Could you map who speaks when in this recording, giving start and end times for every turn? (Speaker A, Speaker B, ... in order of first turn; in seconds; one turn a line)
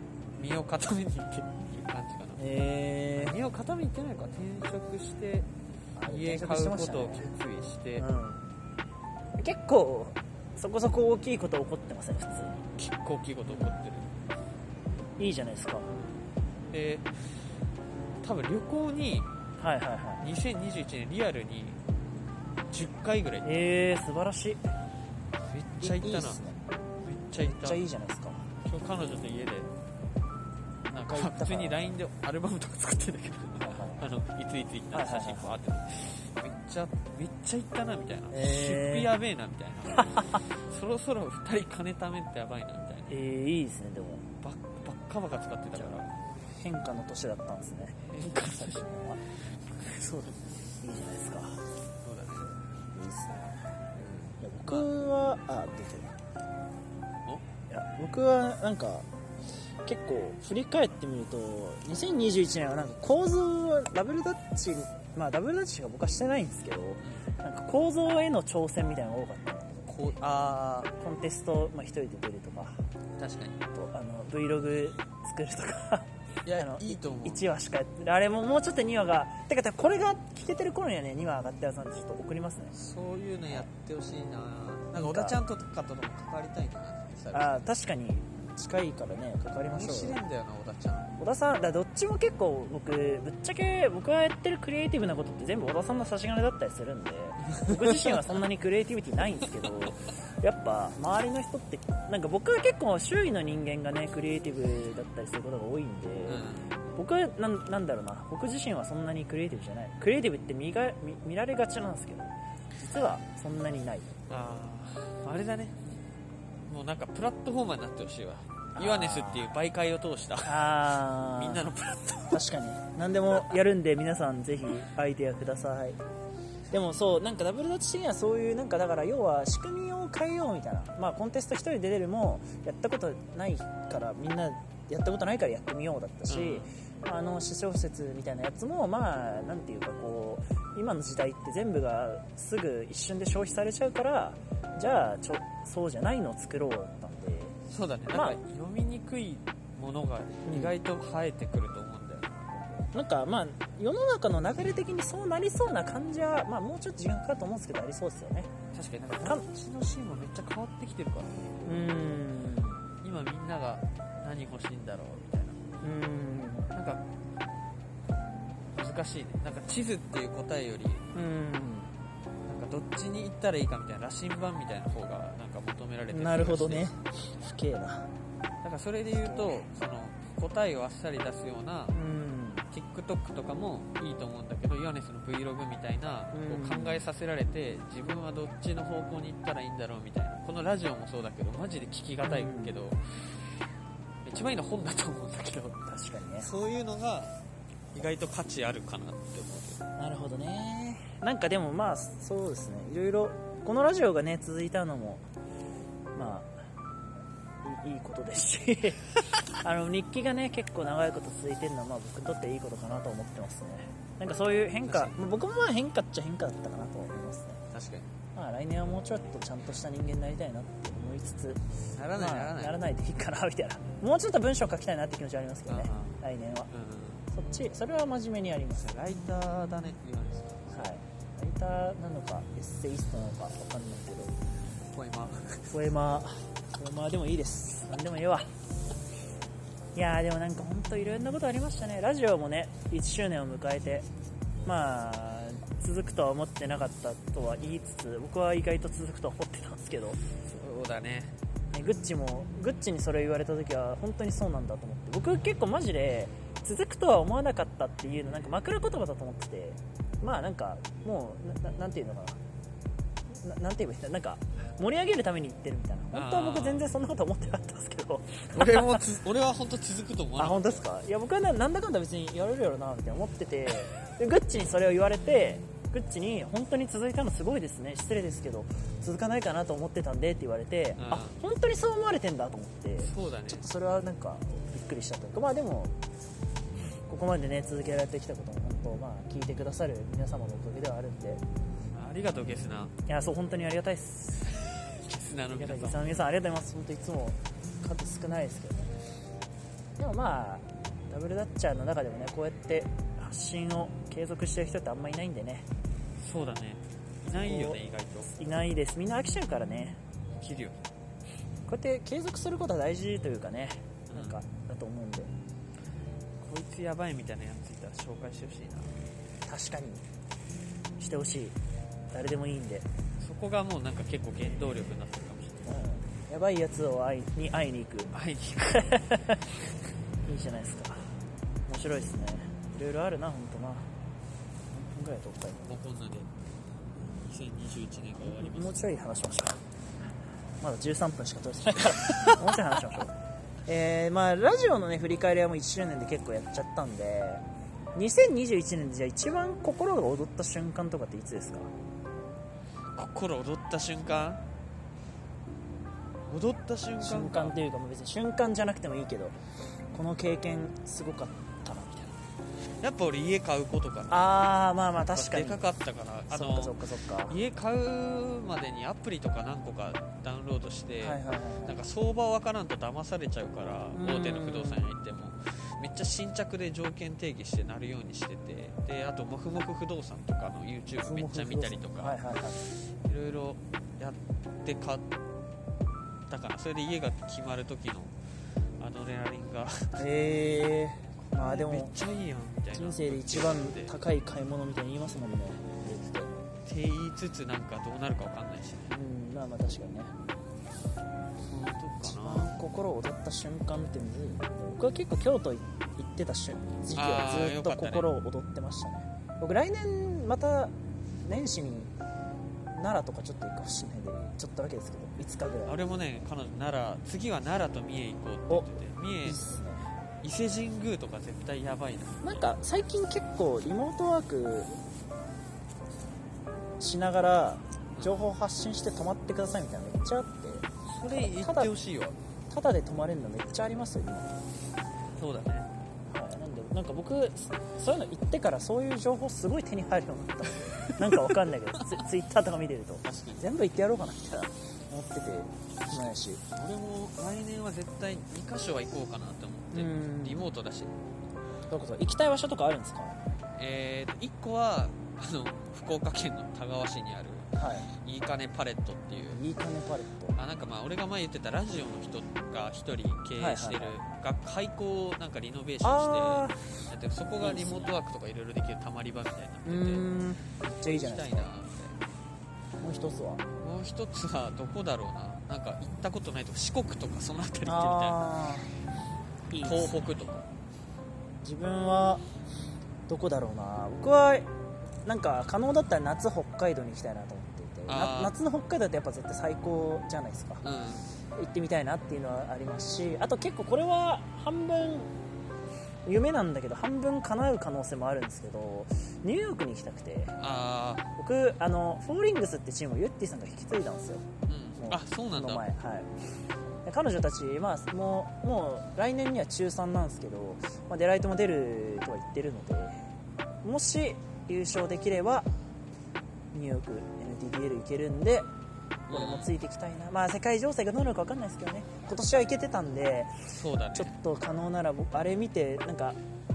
Speaker A: 0.4-2.4
Speaker B: 2.4-3.4
Speaker A: 3.2-5.5
Speaker B: 6.0-7.3
Speaker A: 6.0-8.1
Speaker B: 8.0-8.4
Speaker B: 9.4-12.7
Speaker A: 12.8-14.1
Speaker B: 13.5-13.8
Speaker B: 15.2-15.9
Speaker A: 15.9-17.1
Speaker A: 18.2-19.3
Speaker B: 19.6-20.2
Speaker A: 20.2-21.8
Speaker A: 22.7-23.7
Speaker B: 23.4-24.6
Speaker A: 25.4-26.4
Speaker B: 25.8-26.6
Speaker A: 27.0-27.8
Speaker B: 27.4-28.5
Speaker A: 28.6-29.7
Speaker B: 30.9-31.9
Speaker A: 30.9-43.1
Speaker B: 33.6-34.0
Speaker B: 34.9-35.6
Speaker B: 38.3-39.1
Speaker B: 40.1-40.4
Speaker B: 43.1-44.2
Speaker A: 44.4-46.1
Speaker B: 45.8-49.2
Speaker A: 48.1-48.9
Speaker A: 49.7-50.4
Speaker B: 50.8-51.6
Speaker A: 52.0-52.6
Speaker B: 52.9-53.6
Speaker A: 54.0-54.9
Speaker B: 54.4-56.1
Speaker B: 57.7-59.1
Speaker B: 59.9-69.9
Speaker A: 69.9-70.9
Speaker B: 71.0-72.8
Speaker A: 73.2-73.7
Speaker B: 73.7-82.7
Speaker A: 76.5-77.4
Speaker A: 82.7-87.7
Speaker B: 85.0-85.4
Speaker B: 87.3-90.2
Speaker A: 89.7-91.1
Speaker B: 91.2-114.2
Speaker A: 97.5-98.2
Speaker A: 106.3-106.7
Speaker A: 114.3-115.8
Speaker A: 116.7-120.7
Speaker B: 118.8-119.5
Speaker B: 120.4-121.6
Speaker A: 121.3-122.5
Speaker B: 122.3-126.0
Speaker B: 126.7-147.6
Speaker A: 136.3-136.7
Speaker A: 147.7-152.9
Speaker B: 148.1-148.4
Speaker B: 150.5-150.8
Speaker B: 152.9-158.5
Speaker A: 158.7-161.8
Speaker B: 159.2-159.5
Speaker B: 161.7-162.8
Speaker A: 163.0-165.6
Speaker B: 165.8-166.7
Speaker A: 166.7-167.0
Speaker A: 168.7-171.1
Speaker B: 171.1-171.9
Speaker A: 172.5-176.9
Speaker B: 176.1-178.1
Speaker A: 178.6-182.0
Speaker B: 179.2-179.7
Speaker B: 181.9-182.7
Speaker A: 182.7-193.4
Speaker B: 186.3-187.0
Speaker B: 192.2-192.8
Speaker A: 194.2-195.8
Speaker B: 195.9-196.5
Speaker A: 196.4-197.3
Speaker A: 197.9-199.8
Speaker B: 200.0-205.2
Speaker B: 206.2-206.6
Speaker B: 207.6-217.6
Speaker A: 214.8-215.2
Speaker A: 217.7-218.1
Speaker B: 218.3-221.6
Speaker A: 222.0-222.8
Speaker B: 222.1-226.7
Speaker A: 225.7-226.2
Speaker A: 226.7-227.3
Speaker B: 227.3-228.9
Speaker A: 228.8-230.9
Speaker B: 230.7-234.3
Speaker A: 234.9-235.7
Speaker B: 235.7-238.5
Speaker B: 239.9-244.1
Speaker B: 244.7-250.2
Speaker A: 250.4-251.3
Speaker B: 251.7-262.4
Speaker B: 263.3-269.0
Speaker A: 266.1-266.9
Speaker A: 268.5-270.9
Speaker B: 270.4-285.9
Speaker A: 281.0-281.4
Speaker A: 283.0-283.7
Speaker B: 287.1-291.4
Speaker A: 291.9-292.9
Speaker B: 293.1-294.5
Speaker A: 294.9-296.1
Speaker B: 295.5-298.9
Speaker B: 300.0-305.7
Speaker A: 306.2-308.3
Speaker B: 307.3-307.8
Speaker B: 308.3-310.0
Speaker A: 310.4-310.9
Speaker B: 311.7-315.3
Speaker A: 314.1-314.4
Speaker A: 316.4-319.0
Speaker B: 319.5-320.1
Speaker B: 321.0-321.6
Speaker B: 322.1-322.9
Speaker A: 323.2-325.7
Speaker B: 325.7-328.1
Speaker A: 328.1-329.0
Speaker B: 328.9-329.6
Speaker B: 330.3-331.1
Speaker B: 331.7-333.9
Speaker B: 334.7-335.7
Speaker A: 335.6-336.3
Speaker A: 337.0-338.9
Speaker B: 338.2-339.6
Speaker B: 340.6-343.1
Speaker A: 341.9-342.9
Speaker B: 343.7-347.4
Speaker B: 347.9-351.7
Speaker A: 352.9-354.4
Speaker A: 356.3-357.6
Speaker B: 357.0-359.4
Speaker B: 359.9-362.2
Speaker A: 362.8-382.2
Speaker B: 364.1-365.6
Speaker B: 366.3-367.4
Speaker B: 371.0-371.8
Speaker B: 373.9-374.9
Speaker B: 381.0-382.6
Speaker A: 383.1-385.1
Speaker A: 386.3-388.1
Speaker A: 388.8-390.0
Speaker B: 390.0-392.0
Speaker A: 391.2-393.9
Speaker B: 392.7-396.3
Speaker A: 396.6-398.9
Speaker B: 398.9-400.1
Speaker A: 401.5-402.5
Speaker B: 402.0-411.9
Speaker A: 406.9-408.1
Speaker B: 412.7-415.8
Speaker A: 415.7-419.4
Speaker B: 418.5-419.9
Speaker A: 420.2-422.5
Speaker B: 422.2-424.7
Speaker B: 426.8-431.7
Speaker A: 430.9-432.2
Speaker B: 432.5-434.4
Speaker A: 435.2-435.7
Speaker B: 436.1-446.4
Speaker A: 441.0-441.9
Speaker A: 443.0-443.5
Speaker A: 445.9-450.9
Speaker B: 449.7-450.5
Speaker B: 451.7-453.2
Speaker A: 453.6-459.4
Speaker B: 457.6-457.9
Speaker B: 459.3-460.4
Speaker A: 460.4-470.1
Speaker B: 463.4-464.0
Speaker B: 465.8-466.8
Speaker B: 467.4-467.9
Speaker B: 469.6-471.5
Speaker A: 470.8-472.0
Speaker B: 472.8-473.4
Speaker A: 473.6-478.2
Speaker B: 477.7-478.7
Speaker B: 479.5-480.0
Speaker A: 479.6-480.5
Speaker B: 481.4-482.2
Speaker B: 483.1-484.5
Speaker B: 485.0-490.6
Speaker A: 487.9-488.4
Speaker A: 490.6-491.1
Speaker B: 491.4-495.1
Speaker B: 496.1-500.4
Speaker A: 500.4-501.1
Speaker B: 501.2-504.2
Speaker A: 504.5-505.7
Speaker B: 504.8-506.1
Speaker B: 506.9-513.0
Speaker B: 513.6-515.5
Speaker B: 516.5-518.5
Speaker A: 519.1-519.5
Speaker B: 519.1-526.2
Speaker A: 523.5-524.1